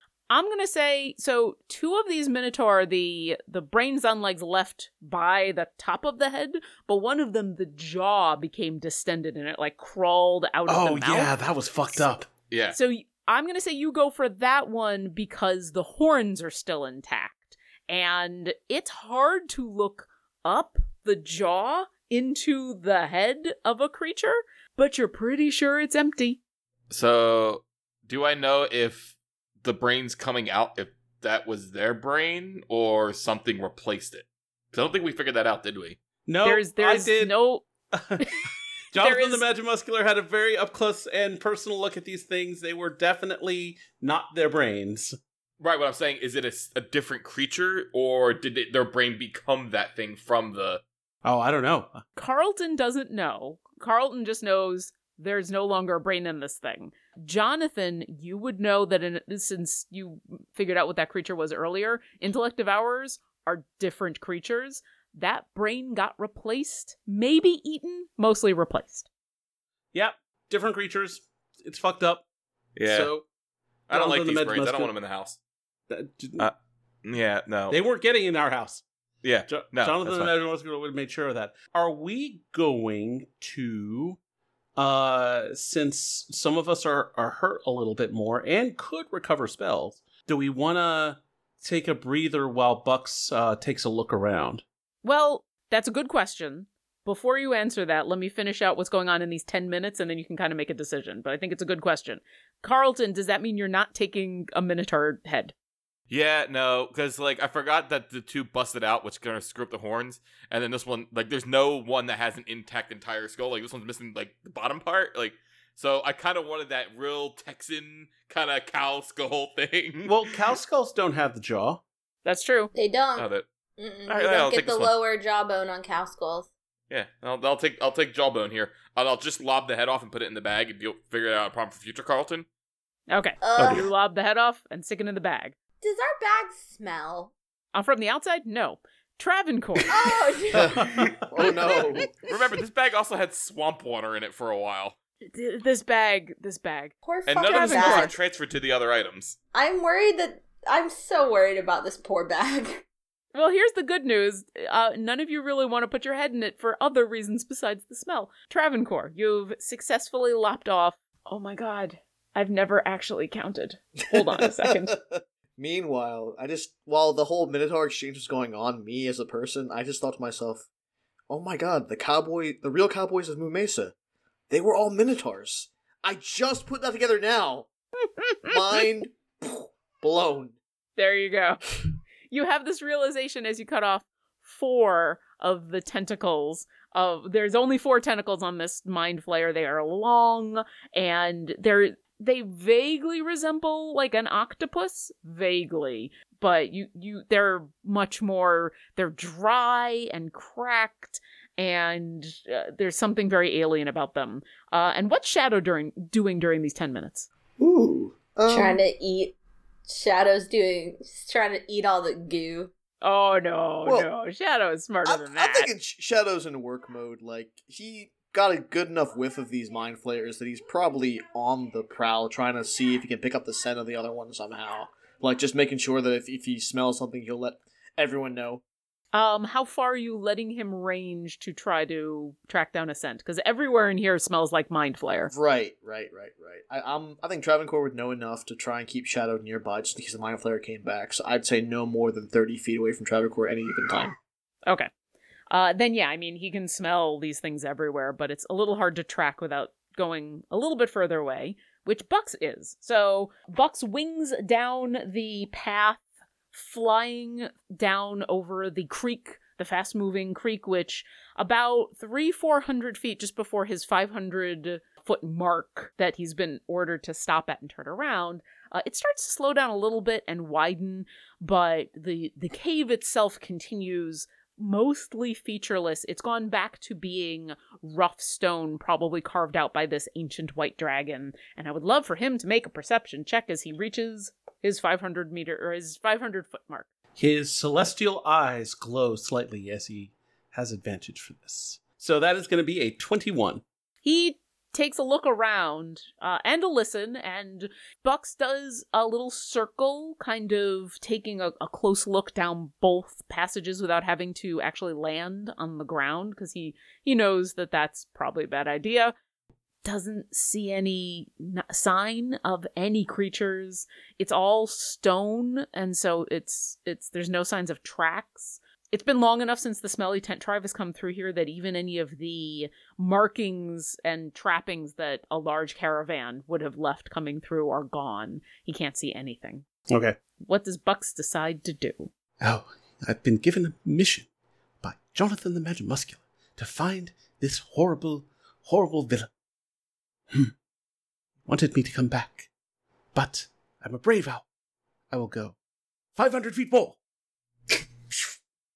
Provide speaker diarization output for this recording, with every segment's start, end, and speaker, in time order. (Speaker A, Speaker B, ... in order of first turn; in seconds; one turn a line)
Speaker A: 0.3-11.3
Speaker B: 10.7-12.3
Speaker C: 12.5-12.8
Speaker A: 12.7-26.4
Speaker C: 26.9-36.0
Speaker B: 36.3-37.3
Speaker A: 36.4-37.7
Speaker B: 37.9-45.2
Speaker A: 39.0-39.4
Speaker C: 45.6-50.8
Speaker B: 51.2-52.0
Speaker A: 52.2-69.1
Speaker B: 69.9-72.2
Speaker C: 72.8-73.1
Speaker B: 72.9-73.2
Speaker C: 73.9-75.4
Speaker B: 73.9-74.9
Speaker B: 75.9-76.5
Speaker C: 76.4-77.8
Speaker B: 77.7-78.8
Speaker C: 79.2-80.3
Speaker B: 79.5-84.2
Speaker B: 84.8-94.6
Speaker A: 95.0-105.5
Speaker C: 106.1-120.3
Speaker B: 120.1-121.8
Speaker A: 122.2-122.7
Speaker D: 122.7-126.5
Speaker C: 123.2-123.5
Speaker C: 124.1-125.0
Speaker C: 126.9-132.5
Speaker A: 133.1-135.6
Speaker D: 133.4-133.8
Speaker B: 133.6-133.8
Speaker D: 135.8-137.3
Speaker A: 137.7-139.9
Speaker D: 139.9-140.8
Speaker E: 140.6-142.3
Speaker C: 142.3-144.9
Speaker A: 145.2-148.1
Speaker D: 147.0-148.1
Speaker C: 147.3-149.4
Speaker D: 149.5-152.8
Speaker A: 153.3-164.9
Speaker E: 164.9-170.7
Speaker E: 171.3-173.9
Speaker E: 174.5-177.7
Speaker A: 178.2-178.5
Speaker E: 178.4-180.6
Speaker A: 181.0-181.6
Speaker A: 182.3-207.3
Speaker E: 207.6-208.8
Speaker D: 208.5-209.3
Speaker D: 209.9-212.7
Speaker A: 213.0-215.7
Speaker E: 215.1-228.6
Speaker A: 229.1-235.3
Speaker E: 235.3-244.2
Speaker A: 245.5-256.0
Speaker A: 256.5-286.9
Speaker B: 287.2-293.6
Speaker A: 294.0-309.1
Speaker A: 309.8-329.7
Speaker B: 329.9-330.2
Speaker A: 330.4-332.1
Speaker B: 332.4-334.3
Speaker B: 334.8-339.3
Speaker B: 341.5-342.5
Speaker B: 343.1-344.4
Speaker B: 345.1-345.6
Speaker B: 346.2-347.0